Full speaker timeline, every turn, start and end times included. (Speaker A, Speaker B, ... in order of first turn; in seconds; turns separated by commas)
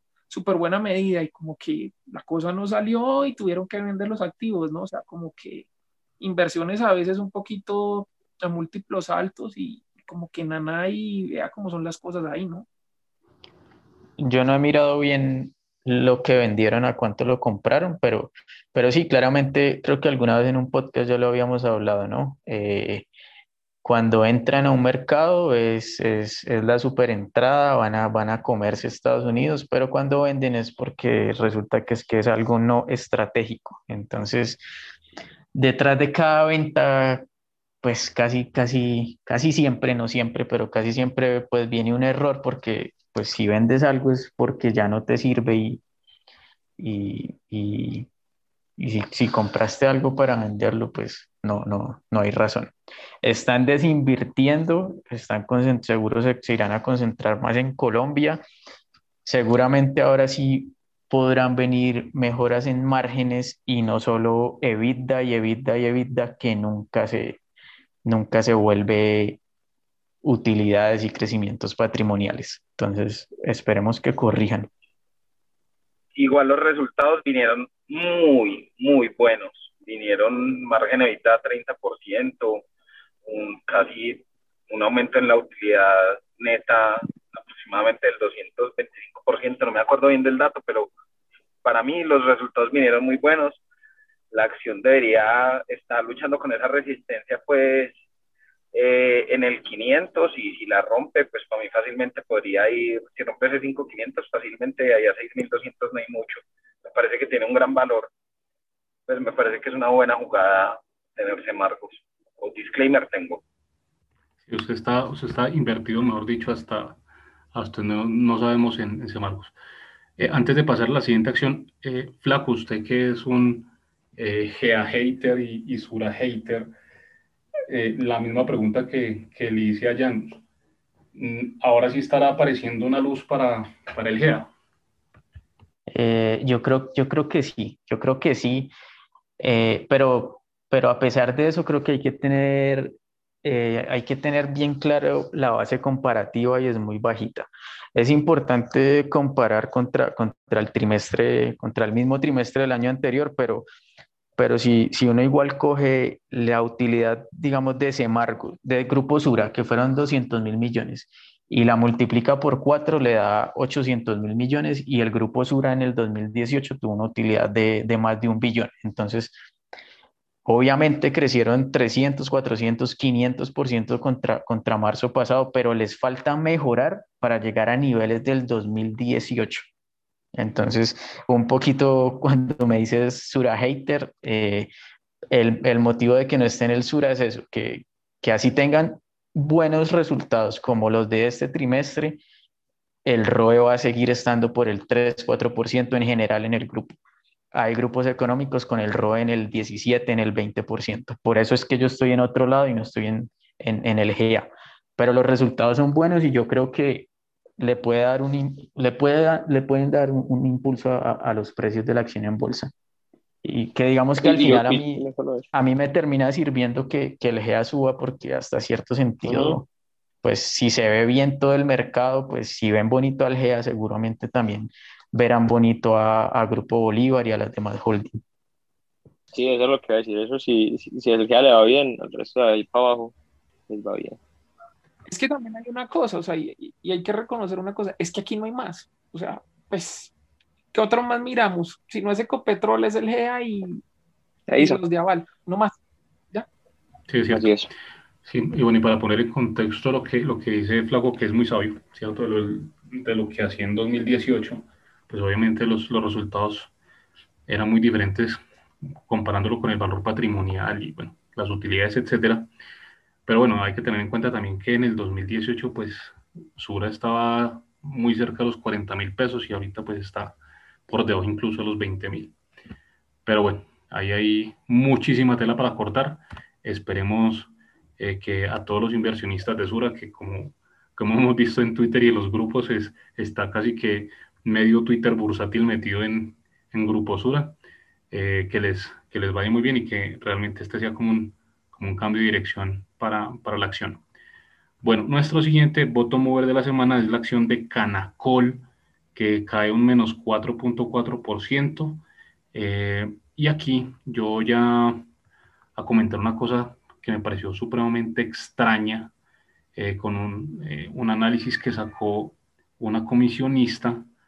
Speaker A: 0.3-5.7, Speaker A: 6.2-12.7, Speaker B: 14.2-23.1, Speaker B: 23.8-34.6, Speaker B: 35.5-37.2, Speaker B: 37.8-45.8, Speaker B: 46.8-48.1, Speaker B: 48.8-58.4, Speaker B: 59.2-67.4, Speaker B: 68.0-69.4, Speaker B: 70.2-74.7, Speaker C: 76.2-82.7, Speaker C: 83.3-90.9, Speaker C: 91.6-93.6, Speaker C: 94.3-98.0, Speaker C: 98.7-108.1, Speaker C: 109.1-113.4, Speaker D: 114.5-117.0, Speaker D: 117.5-119.5, Speaker D: 120.2-126.7, Speaker D: 127.7-130.4, Speaker D: 131.1-134.5, Speaker B: 135.9-138.7, Speaker B: 139.4-153.7, Speaker B: 154.4-169.3, Speaker B: 170.4-179.7, Speaker B: 180.3-184.7, Speaker B: 185.3-192.2, Speaker B: 193.1-197.0, Speaker B: 197.5-212.7, Speaker B: 213.4-219.7, Speaker E: 214.2-215.5, Speaker E: 219.2-219.6, Speaker B: 220.2-228.2, Speaker E: 229.3-233.1, Speaker E: 233.7-234.2, Speaker A: 235.1-240.1, Speaker A: 240.7-243.8, Speaker E: 244.5-244.8, Speaker A: 244.6-245.8, Speaker D: 247.1-247.5, Speaker E: 247.3-247.7, Speaker D: 248.2-256.7, Speaker D: 257.5-258.4, Speaker D: 259.1-262.5, Speaker D: 263.3-270.4, Speaker D: 270.9-272.3, Speaker D: 273.3-287.6, Speaker D: 288.1-294.0, Speaker D: 294.8-302.0, Speaker D: 302.5-305.1, Speaker D: 305.8-309.1, Speaker D: 309.8-314.1